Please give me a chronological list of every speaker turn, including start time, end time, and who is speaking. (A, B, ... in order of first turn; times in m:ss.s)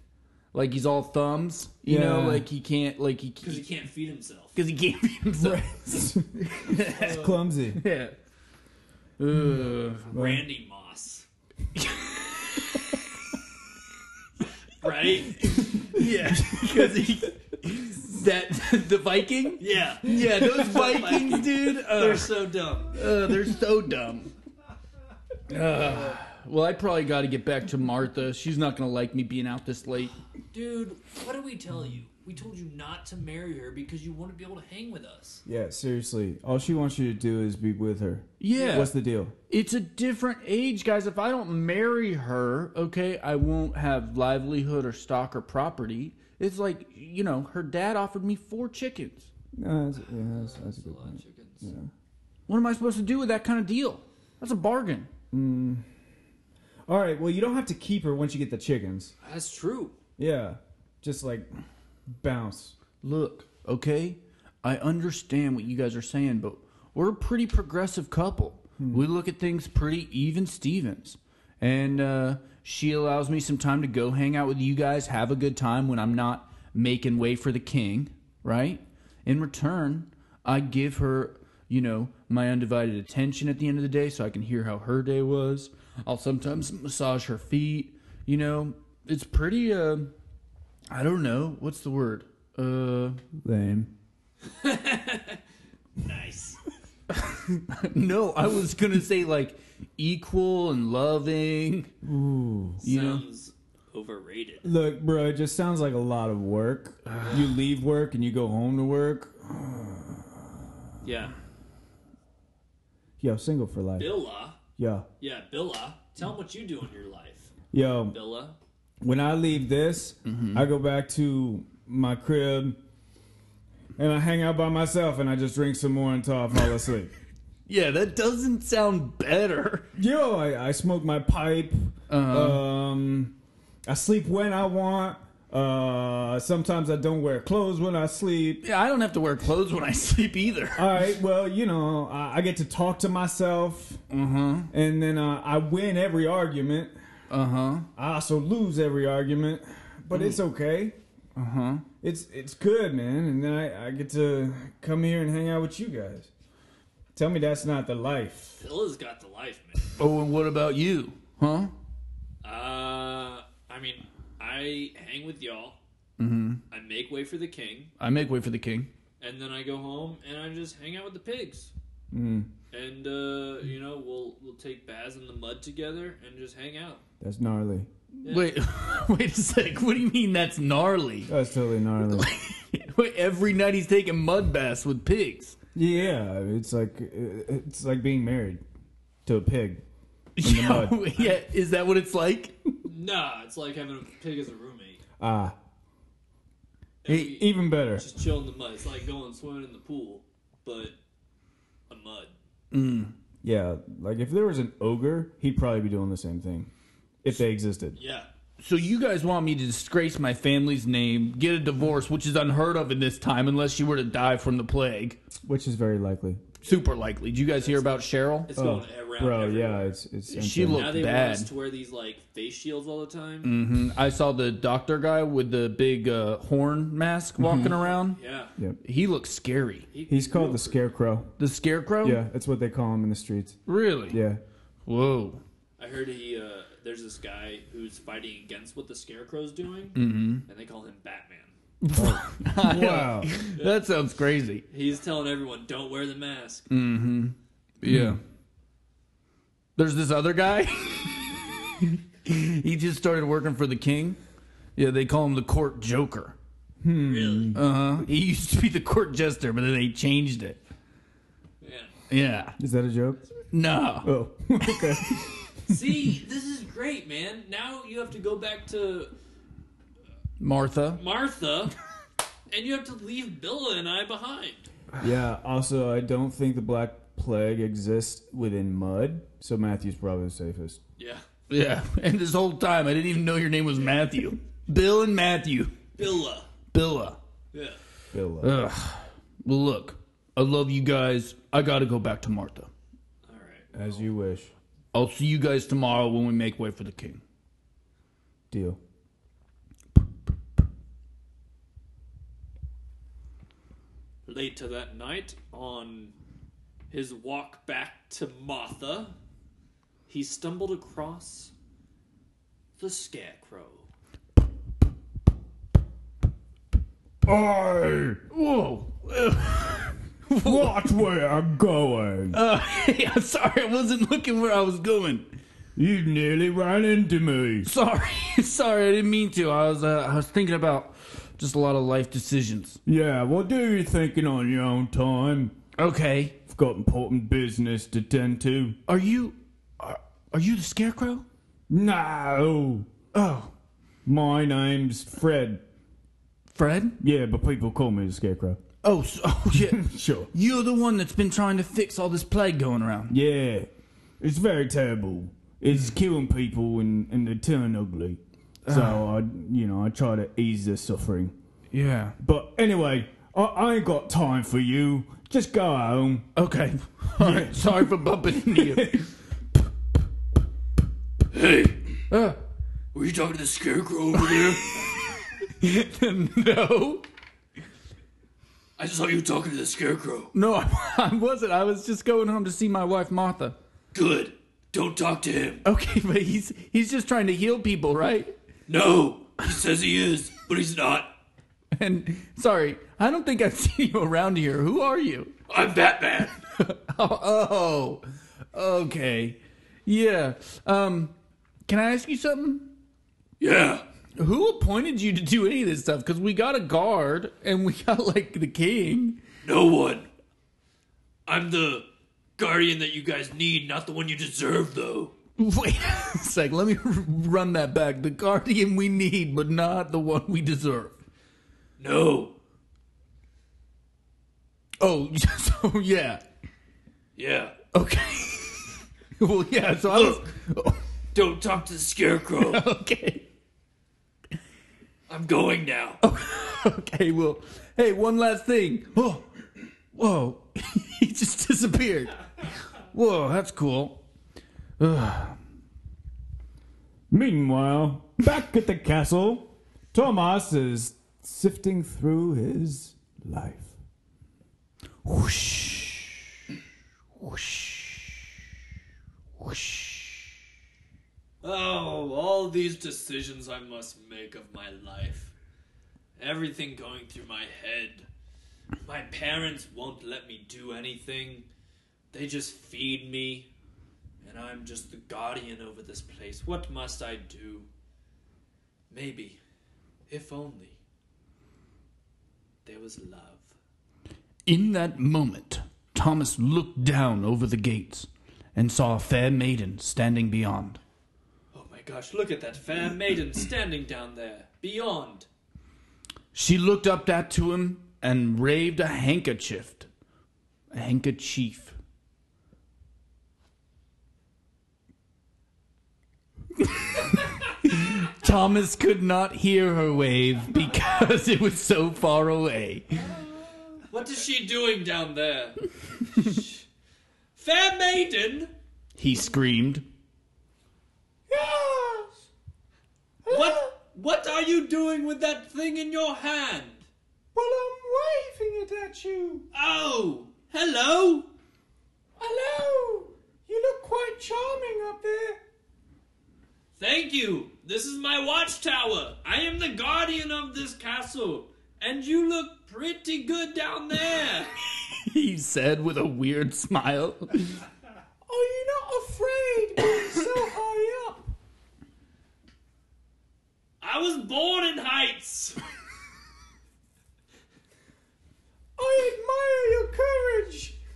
0:00.5-0:03.7 A
0:01.9-0:02.5 B
0:03.4-0:04.6 C
0:04.6-0:05.7 A
0:05.4-0:07.8 B
0:06.4-0:07.2 A
0:06.7-0:07.4 C
0:07.8-0:08.2 A
0:09.2-0:10.1 A
0:10.0-0:11.3 C
0:10.1-0:10.4 B
0:11.8-0:12.9 A
0:14.8-0:16.6 C
0:15.8-0:24.3 A
0:19.6-0:23.0 C
0:25.5-0:30.1 A
0:25.9-0:26.2 C
0:30.5-0:35.4 C
0:35.5-0:39.4 B
0:38.4-0:38.9 A
0:38.5-0:38.9 C
0:39.5-0:49.3 A
0:49.6-0:51.9 B
0:50.0-0:51.7 C
0:52.5-0:55.1 A
0:55.3-0:55.8 B
0:56.9-0:59.1 B
0:59.2-1:00.0 C
1:00.2-1:01.5 B
1:02.1-1:02.8 B
1:03.0-1:30.1 A
1:08.8-1:09.1 B
1:30.9-1:33.2 A
1:33.4-1:33.9 B
1:34.5-1:35.4 C
1:36.0-1:36.6 C
1:37.1-1:41.9 A
1:42.0-1:42.8 B
1:42.8-1:43.2 A
1:42.8-1:44.7 C
1:44.6-1:50.5 B
1:51.0-1:51.3 C
1:53.2-1:54.2 B
1:54.0-1:54.6 C
1:54.8-1:55.1 B
1:55.2-1:57.5 C
1:57.7-1:58.2 B
1:58.1-1:58.6 C
1:59.0-2:02.8 B
2:00.3-2:00.6 A
2:04.0-2:07.1 B
2:07.7-2:09.9 A
2:10.0-2:13.4 B
2:12.1-2:12.6 A
2:13.9-2:18.6 B
2:18.6-2:21.0 A
2:20.8-2:24.0 B
2:24.1-2:24.7 A
2:24.7-2:27.0 B
2:27.3-2:27.9 A
2:28.0-2:31.0 B
2:30.1-2:30.4 A
2:31.4-2:31.8 A
2:32.0-2:36.3 B
2:37.2-2:38.6 B
2:38.6-2:39.9 C
2:40.0-2:41.7 A
2:42.4-2:45.8 C
2:46.2-2:46.6 A
2:46.7-2:47.9 C
2:48.0-2:48.9 A
2:49.2-2:51.7 C
2:52.1-2:52.5 B
2:52.7-2:57.0 C
2:57.2-2:57.9 B
2:58.2-2:58.6 C
2:58.2-3:01.3 A
3:01.3-3:02.3 B
3:02.1-3:05.6 A
3:05.8-3:08.6 B
3:09.2-3:09.8 B
3:10.4-3:12.5 A
3:10.4-3:11.0 B
3:11.2-3:11.4 C
3:12.8-3:15.0 C
3:15.2-3:15.6 B
3:17.0-3:21.0 C
3:17.1-3:18.1 B
3:21.9-3:22.4 C
3:22.7-3:23.1 A
3:23.4-3:26.7 B
3:27.2-3:28.0 B
3:28.0-3:28.3 C
3:28.6-3:35.2 A
3:35.5-3:36.4 B
3:36.6-3:38.5 A
3:37.5-3:40.0 C
3:38.6-3:41.0 B
3:40.3-3:41.5 A
3:40.7-3:43.5 C
3:43.4-3:48.2 A
3:47.4-3:47.7 B
3:47.5-3:48.5 C
3:48.8-3:49.9 A
3:49.9-3:50.8 C
3:50.1-3:51.3 B
3:51.4-3:52.2 A
3:52.0-3:53.6 B
3:53.7-3:54.2 A
3:54.1-3:54.4 B
3:54.9-3:55.4 A
3:55.8-4:01.6 C
4:00.0-4:00.4 A
4:01.8-4:04.6 A
4:02.0-4:03.3 B
4:04.7-4:06.7 C
4:06.7-4:08.2 A
4:07.8-4:08.2 B
4:09.8-4:14.2 A
4:14.8-4:16.4 A
4:16.8-4:17.6 B
4:17.0-4:17.6 C
4:17.6-4:20.6 A
4:21.6-4:21.9 C
4:22.1-4:22.6 A
4:22.6-4:23.2 B
4:23.5-4:24.1 A
4:24.0-4:25.7 B
4:25.7-4:29.1 C
4:30.4-4:31.0 A
4:31.0-4:31.7 C
4:32.5-4:34.7 C
4:35.0-4:40.8 B
4:41.0-4:41.2 C
4:41.5-4:45.8 A
4:46.0-4:46.5 C
4:46.7-4:47.2 A
4:47.5-4:47.8 C
4:48.1-4:48.5 B
4:48.4-4:52.7 A
4:53.3-4:54.1 C
4:53.7-4:54.5 B
4:54.9-4:57.2 A
4:58.5-4:58.8 B
5:04.3-5:06.2 C
5:06.9-5:09.2 C
5:10.1-5:11.5 C
5:12.8-5:13.9 C
5:17.2-5:18.2 B
5:18.3-5:20.9 A
5:20.4-5:22.4 B
5:22.3-5:25.3 A
5:25.8-5:27.7 B
5:27.6-5:32.8 A
5:32.9-5:35.6 B
5:35.8-5:36.4 A
5:36.5-5:38.8 B
5:38.9-5:41.2 A
5:41.7-5:42.9 B
5:43.1-5:43.5 A
5:44.0-5:45.6 B
5:46.5-5:47.0 A
5:47.0-5:48.6 B
5:48.8-5:53.2 A
5:49.6-5:50.3 B
5:53.1-5:53.7 B
5:54.2-6:01.4 B
5:58.6-5:59.0 A
6:01.7-6:02.2 A
6:02.2-6:06.3 B
6:06.4-6:09.1 A
6:07.2-6:09.1 B
6:11.3-6:11.8 C
6:12.1-6:12.4 A
6:12.9-6:14.9 C
6:14.2-6:17.0 A
6:18.8-6:20.3 C
6:20.3-6:23.6 A
6:23.9-6:25.6 C
6:25.6-6:28.3 A
6:28.7-6:31.1 C
6:31.8-6:35.4 A
6:35.5-6:36.4 C
6:36.5-6:41.1 A
6:41.7-6:42.7 A
6:43.4-6:43.8 C
6:44.2-6:49.2 A
6:49.4-6:50.1 C
6:51.3-6:55.2 C
6:55.4-7:01.0 A
7:01.8-7:02.4 C
7:04.8-7:06.2 A
7:07.2-7:07.6 C
7:07.7-7:10.8 A
7:09.9-7:10.3 C
7:11.1-7:12.6 C
7:12.4-7:13.2 A
7:15.1-7:16.0 C
7:16.0-7:19.2 A
7:19.9-7:24.0 A
7:24.8-7:25.4 A
7:27.1-7:33.8 B
7:35.0-7:36.2 A
7:37.2-7:38.2 A
7:39.4-7:40.3 A
7:41.4-7:45.3 C
7:46.2-7:48.1 C
7:48.8-7:51.5 C
7:52.1-7:53.5 C
7:54.2-7:57.7 C
7:58.9-7:59.4 C
8:00.1-8:00.8 C
8:02.6-8:03.5 C
8:04.5-8:10.8 A
8:11.5-8:15.3 C
8:16.3-8:19.9 A
8:20.7-8:21.8 A
8:27.6-8:33.0 A
8:33.9-8:36.6 C
8:37.4-8:38.5 C
8:39.0-8:39.8 A
8:41.3-8:42.1 B
8:43.2-8:43.7 B
8:43.3-8:46.9 C
8:47.4-8:49.5 B
8:49.5-8:51.3 C
8:52.2-8:55.4 B
8:56.8-9:04.5 C
9:04.9-9:07.6 A
9:08.3-9:11.3 B
9:13.8-9:15.6 C
9:18.8-9:20.8 B